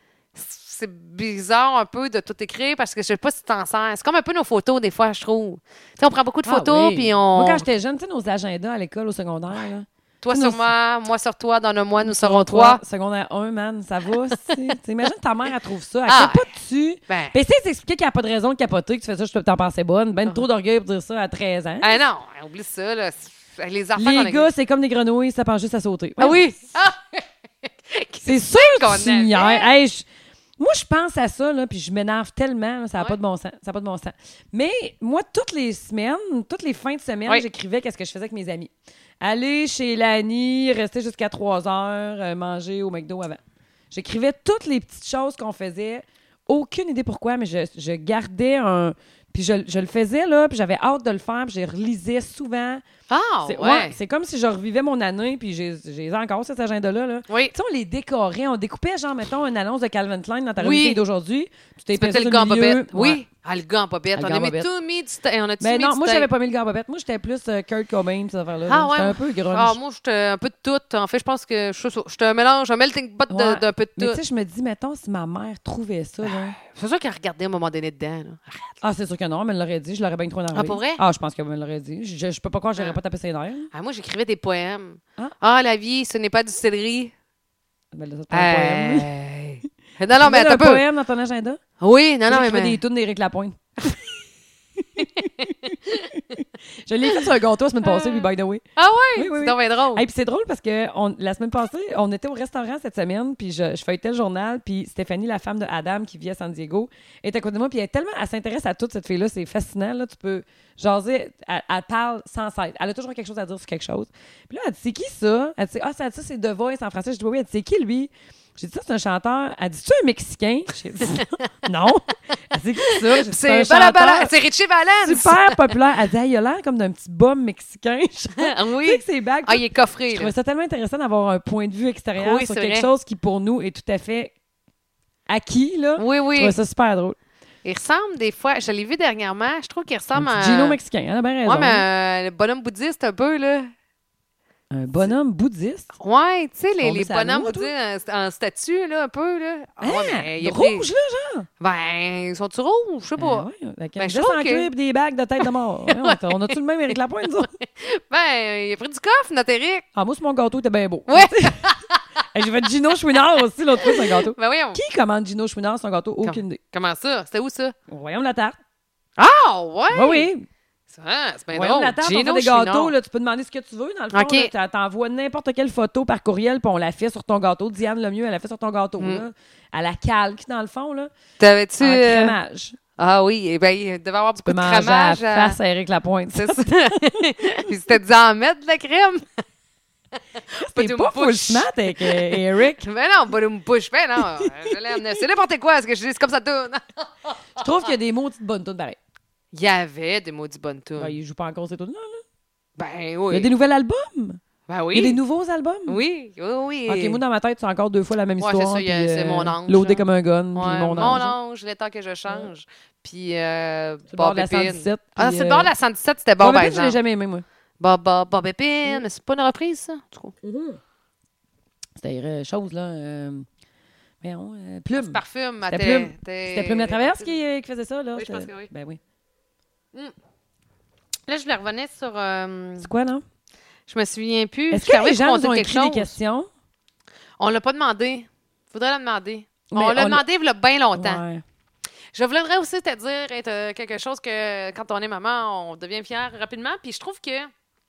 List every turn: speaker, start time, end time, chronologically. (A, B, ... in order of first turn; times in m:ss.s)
0:00.3-0:07.6 A
0:06.4-0:10.6 B
0:10.2-0:12.8 A
0:12.0-0:22.0 B
0:16.1-0:16.4 A
0:17.1-0:17.3 A
0:21.8-0:24.5 A
0:24.0-0:26.5 B
0:26.2-0:29.7 A
0:28.2-0:30.0 B
0:30.6-0:43.4 B
0:43.9-0:52.8 B
0:53.1-0:54.0 A
0:53.4-1:03.2 B
0:57.3-0:57.5 A
1:00.6-1:01.0 A
1:01.9-1:06.3 A
1:04.1-1:04.7 B
1:05.6-1:09.8 B
1:08.7-1:14.2 A
1:13.3-1:16.6 B
1:16.2-1:18.8 A
1:18.8-1:23.7 B
1:20.5-1:21.0 A
1:23.7-1:27.1 A
1:27.9-1:29.1 B
1:28.3-1:30.8 A
1:30.2-1:31.6 B
1:31.8-1:32.8 A
1:32.3-1:33.9 B
1:34.8-1:38.6 B
1:35.0-1:35.5 A
1:37.8-1:40.0 A
1:39.2-2:04.3 B
2:01.0-2:01.5 A
2:02.9-2:05.7 A
2:05.0-2:14.3 B
2:08.4-2:10.3 A
2:12.2-2:12.9 A
2:15.3-2:17.2 B
2:16.0-2:16.5 A
2:17.6-2:20.8 A
2:20.2-2:21.8 B
2:21.4-2:23.7 A
2:24.7-2:25.9 B
2:25.9-2:30.9 A
2:26.8-2:27.7 B
2:29.8-2:31.5 B
2:31.6-2:33.5 A
2:33.2-2:37.5 B
2:34.0-2:34.7 A
2:35.4-2:39.8 A
2:39.9-2:41.7 B
2:41.1-2:42.0 A
2:42.3-2:46.6 B
2:43.8-2:44.8 A
2:46.2-2:47.7 A
2:47.9-2:48.6 B
2:49.2-2:50.3 A
2:49.9-2:50.4 B
2:50.9-2:52.9 A
2:51.5-3:01.1 B
2:54.1-2:54.5 A
3:01.4-3:02.3 A
3:01.8-3:02.8 B
3:03.0-3:05.6 A
3:04.4-3:07.2 B
3:06.3-3:09.4 A
3:10.5-3:17.9 A
3:10.6-3:12.8 B
3:14.3-3:15.1 B
3:17.6-3:19.0 B
3:19.5-3:21.1 A
3:21.0-3:22.2 B
3:22.8-3:23.5 A
3:23.3-3:24.4 B
3:24.7-3:25.2 A
3:24.9-3:26.0 B
3:25.9-3:27.2 A
3:26.9-3:31.3 B
3:28.4-3:37.0 A
3:34.1-3:35.7 B
3:36.4-3:37.4 B
3:37.8-3:40.3 A
3:40.4-3:40.8 B
3:42.0-3:43.4 B
3:44.2-3:49.0 B
3:44.9-3:47.3 A
3:48.2-3:48.7 A
3:51.3-3:52.9 A
3:52.8-3:53.2 B
3:53.9-3:56.1 A
3:54.7-3:56.5 B
3:57.4-4:01.2 A
3:59.7-4:00.2 B
4:00.9-4:01.4 B
4:02.1-4:07.5 A